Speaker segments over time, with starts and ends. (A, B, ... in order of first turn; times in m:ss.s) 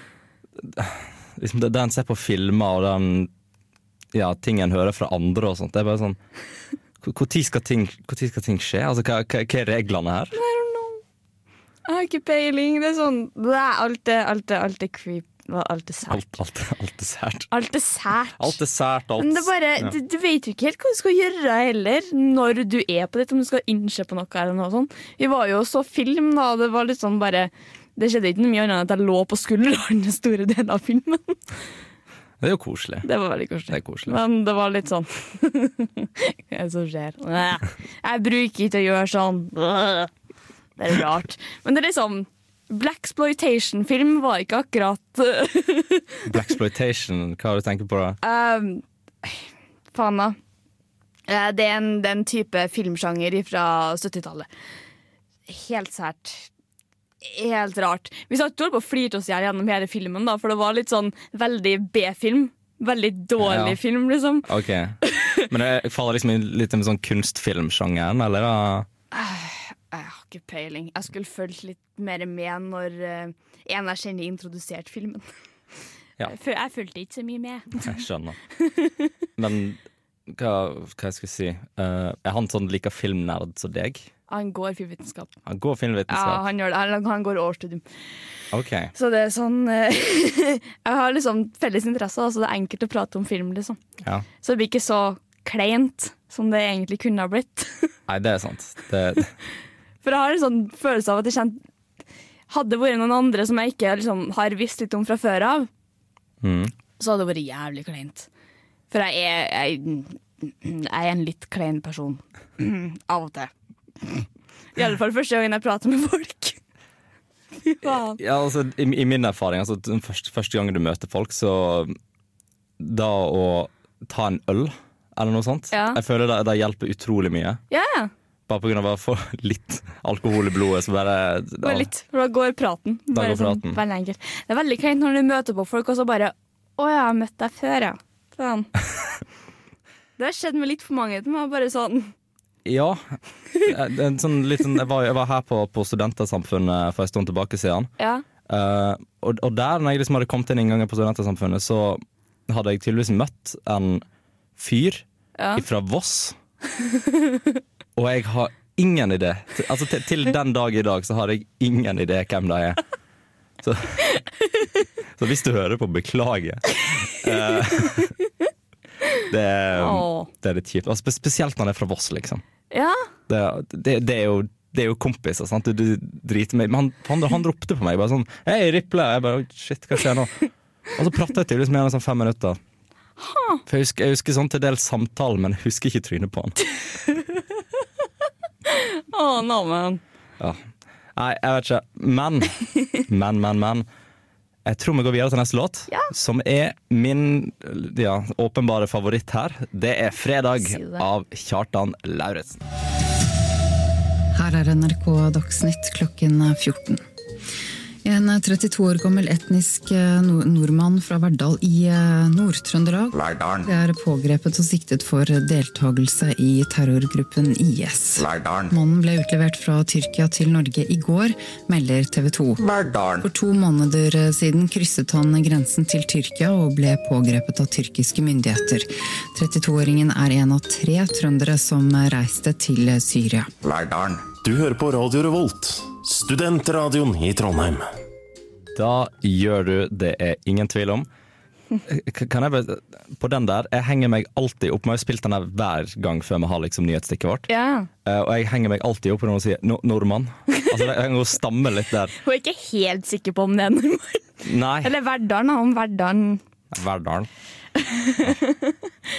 0:00.6-0:03.3 A
0:04.1-0:06.2 A
0:07.0-0:10.3 A
0:10.3-0:11.0 B
0:11.9-0:16.2 B
0:16.1-0:17.5 A
0:17.5-0:18.6 B
0:18.4-0:19.9 A
0:19.2-0:31.4 B
0:32.4-0:33.1 A
0:33.0-0:40.1 B
0:33.7-0:34.2 A
0:40.8-0:46.2 B
0:46.2-0:48.2 A
0:48.2-0:50.4 B
0:51.3-0:54.5 B
0:55.5-0:56.5 B
0:57.2-1:04.5 B
1:03.4-1:03.8 A
1:04.4-1:08.9 A
1:05.0-1:05.4 B
1:09.1-1:15.3 B
1:16.2-1:17.9 B
1:17.8-1:18.4 A
1:18.6-1:19.1 B
1:19.4-1:24.1 A
1:24.3-1:25.3 B
1:25.4-1:26.4 A
1:26.1-1:27.8 B
1:28.5-1:28.9 A
1:28.9-1:33.8 B
1:34.4-1:37.9 B
1:38.1-1:39.3 A
1:40.0-1:41.6 B
1:42.5-1:45.7 B
1:46.4-1:46.7 A
1:47.0-1:48.3 B
1:48.9-1:53.5 B
1:54.0-1:56.6 B
1:57.6-1:58.2 B
1:57.8-2:01.9 A
2:02.8-2:07.6 A
2:05.7-2:06.0 B
2:07.7-2:08.1 B
2:08.5-2:11.9 A
2:11.6-2:18.7 B
2:13.1-2:13.8 A
2:20.2-2:22.1 B
2:22.6-2:27.9 A
2:28.0-2:28.2 B
2:28.4-2:34.0 A
2:34.6-2:35.0 A
2:35.4-2:35.6 B
2:35.6-2:36.4 A
2:38.0-2:42.8 A
2:43.6-2:44.0 A
2:45.2-2:48.1 A
2:49.3-2:52.4 A
2:49.7-2:50.3 B
2:52.7-2:53.1 B
2:53.3-3:02.6 A
3:03.2-3:03.6 B
3:03.7-3:06.6 A
3:06.9-3:07.4 B
3:08.7-3:10.0 B
3:11.2-3:13.8 A
3:14.6-3:22.6 A
3:20.6-3:21.0 B
3:24.3-3:27.0 C
3:28.0-3:42.6 C
3:33.1-3:33.7 D
3:38.2-3:38.7 D
3:42.6-3:43.3 D
3:43.2-3:53.5 C
3:53.6-3:54.3 D
3:54.4-3:57.8 E
3:58.7-4:01.1 A
4:01.8-4:07.5 A
4:07.5-4:07.9 B
4:08.0-4:12.1 A
4:12.2-4:14.3 B
4:14.4-4:14.9 A
4:14.8-4:16.4 B
4:16.7-4:17.3 A
4:17.7-4:18.9 B